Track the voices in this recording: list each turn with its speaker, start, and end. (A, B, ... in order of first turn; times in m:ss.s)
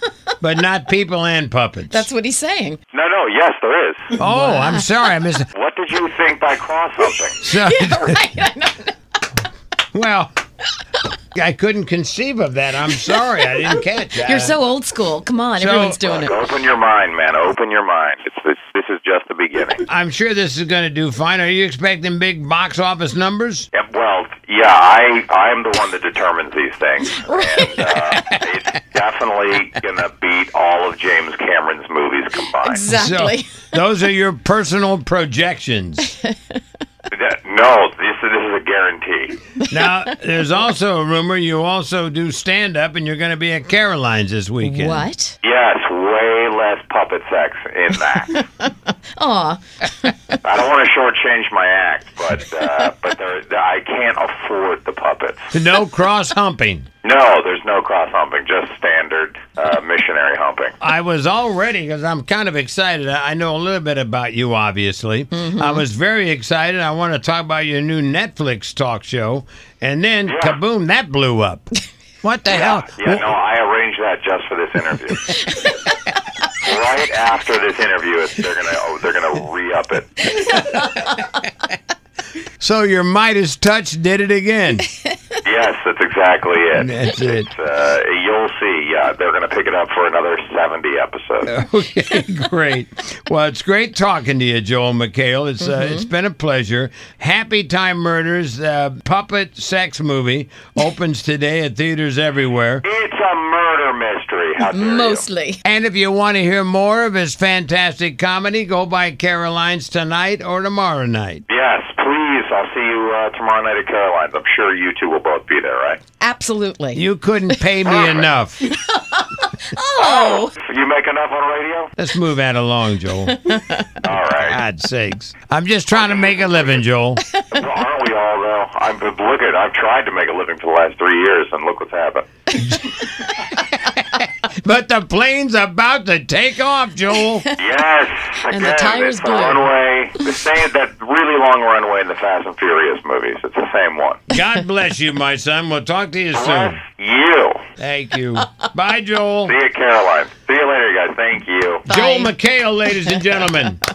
0:00.4-0:02.1 A
0:01.9-0:02.8 B
0:02.9-0:04.1 C
0:04.2-0:05.4 A
0:05.5-0:07.4 C
0:07.4-0:08.3 A
0:07.7-0:08.9 B
0:09.9-0:10.3 A
0:11.3-0:14.6 A
0:14.2-0:16.4 B
0:15.6-0:16.0 A
0:16.0-0:19.8 C
0:19.8-0:23.7 A
0:23.7-0:32.8 C
0:32.7-0:33.7 B
0:32.9-0:36.1 A
0:37.1-0:39.3 C
0:39.7-0:45.0 A
0:44.6-0:45.4 B
0:45.4-0:48.4 C
0:49.2-0:50.2 B
0:50.4-0:55.5 C
0:55.5-0:56.9 A
0:57.0-1:00.7 C
1:00.8-1:13.3 A
1:05.3-1:05.8 B
1:10.3-1:10.6 C
1:12.5-1:15.4 C
1:15.5-1:15.8 B
1:16.6-1:20.3 C
1:20.5-1:20.9 A
1:22.6-1:24.9 A
1:25.4-1:31.5 C
1:26.7-1:27.5 A
1:31.4-1:42.8 A
1:35.6-1:36.1 B
1:42.8-1:45.2 C
1:44.6-1:45.6 B
1:45.6-1:51.4 A
1:51.5-1:56.0 C
1:56.2-1:57.0 B
1:56.9-1:58.8 A
1:57.8-1:58.3 C
1:58.8-2:00.5 B
2:00.0-2:01.9 C
2:02.0-2:03.4 A
2:03.3-2:04.0 B
2:04.0-2:04.6 C
2:04.4-2:07.2 A
2:05.9-2:06.8 C
2:07.5-2:12.2 C
2:12.6-2:17.4 A
2:17.6-2:24.3 C
2:18.5-2:19.7 B
2:24.3-2:26.8 A
2:26.3-2:27.6 C
2:27.8-2:29.5 A
2:29.4-2:31.9 C
2:31.8-2:32.3 B
2:31.9-2:33.8 A